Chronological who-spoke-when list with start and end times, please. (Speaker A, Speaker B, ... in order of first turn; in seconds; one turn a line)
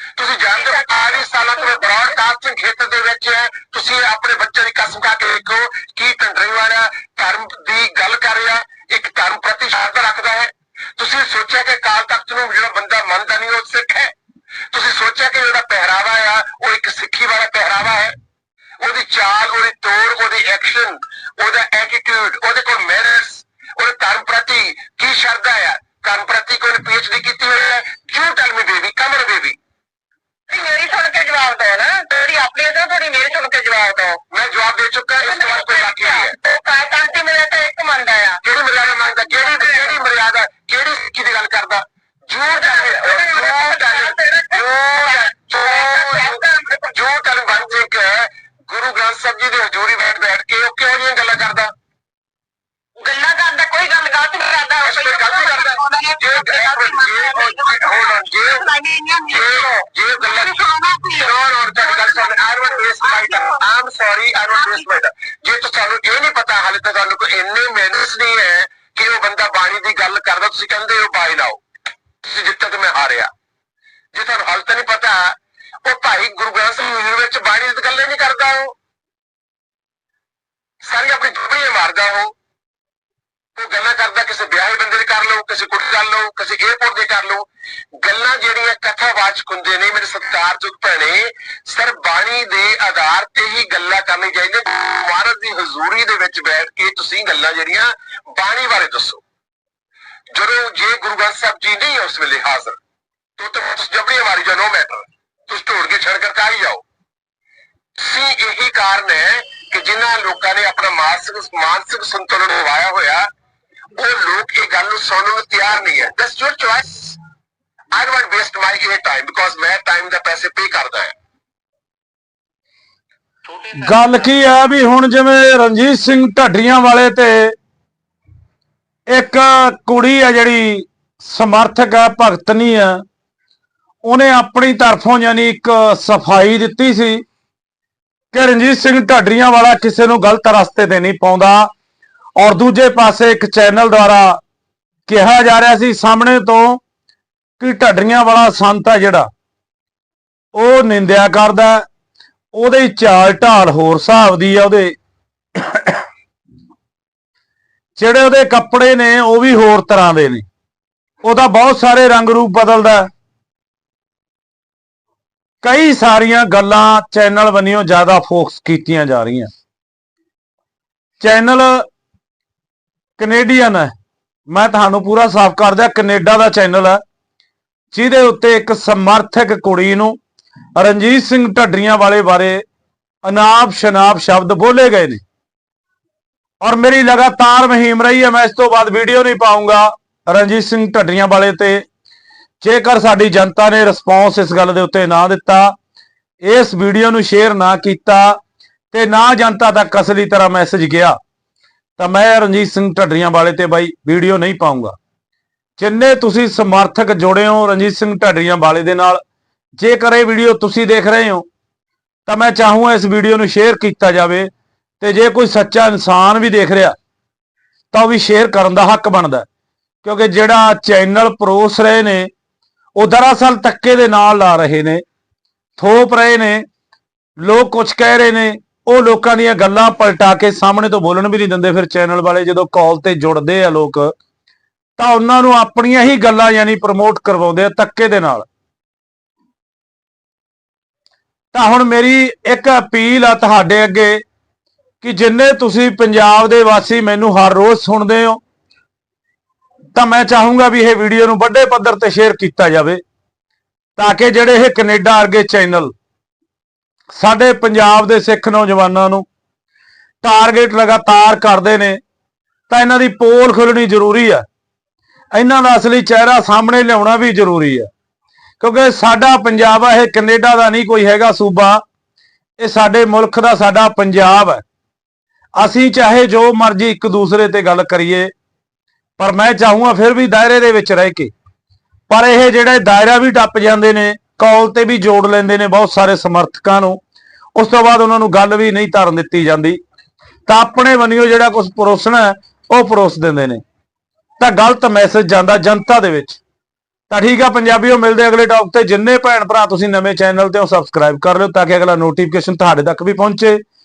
Speaker A: 0.1-14.1
Speaker B: 0.5-2.2
Speaker A: 14.7-18.2
Speaker A: 18.8-29.6
Speaker B: 30.5-34.2
Speaker A: 34.3-36.4
Speaker B: 35.2-40.0
Speaker A: 38.4-51.7
Speaker B: 42.5-46.9
Speaker B: 53.0-63.7
Speaker A: 54.8-58.7
Speaker A: 59.3-60.5
Speaker A: 61.2-71.6
Speaker B: 64.5-64.9
Speaker A: 72.2-73.3
Speaker A: 74.1-78.8
Speaker A: 80.8-82.4
Speaker A: 83.6-99.2
Speaker A: 100.3-102.8
Speaker A: 103.4-106.8
Speaker A: 108.0-113.3
Speaker A: 114.0-117.2
Speaker A: 117.9-121.2
Speaker C: 123.7-127.5
Speaker C: 129.1-133.0
Speaker C: 134.1-137.2
Speaker C: 138.3-141.7
Speaker C: 142.4-144.4
Speaker C: 145.1-146.8
Speaker C: 147.6-149.3
Speaker C: 150.5-151.8
Speaker C: 152.5-154.9
Speaker C: 155.6-156.0
Speaker C: 158.0-160.4
Speaker C: 161.2-163.1
Speaker C: 165.6-169.5
Speaker C: 171.2-171.9
Speaker C: 173.2-173.9
Speaker C: 174.5-177.0
Speaker C: 177.9-180.2
Speaker C: 180.8-182.6
Speaker C: 183.2-185.2
Speaker C: 186.6-191.8
Speaker C: 192.6-195.8
Speaker C: 196.4-198.4
Speaker C: 198.9-201.2
Speaker C: 202.0-204.9
Speaker C: 205.8-209.2
Speaker C: 209.8-211.5
Speaker C: 212.3-216.9
Speaker C: 217.9-219.5
Speaker C: 220.0-222.3
Speaker C: 223.0-225.0
Speaker C: 225.8-226.7
Speaker C: 227.4-234.1
Speaker C: 235.0-238.4
Speaker C: 241.5-244.2
Speaker C: 245.0-248.4
Speaker C: 249.9-253.0
Speaker C: 254.0-255.9
Speaker C: 257.1-259.2
Speaker C: 260.2-262.0
Speaker C: 262.7-264.4
Speaker C: 265.3-267.9
Speaker C: 268.6-271.8
Speaker C: 272.6-274.6
Speaker C: 275.6-278.3
Speaker C: 279.2-281.3
Speaker C: 282.1-287.0
Speaker C: 287.6-289.8
Speaker C: 290.5-293.6
Speaker C: 294.4-296.4
Speaker C: 297.1-303.6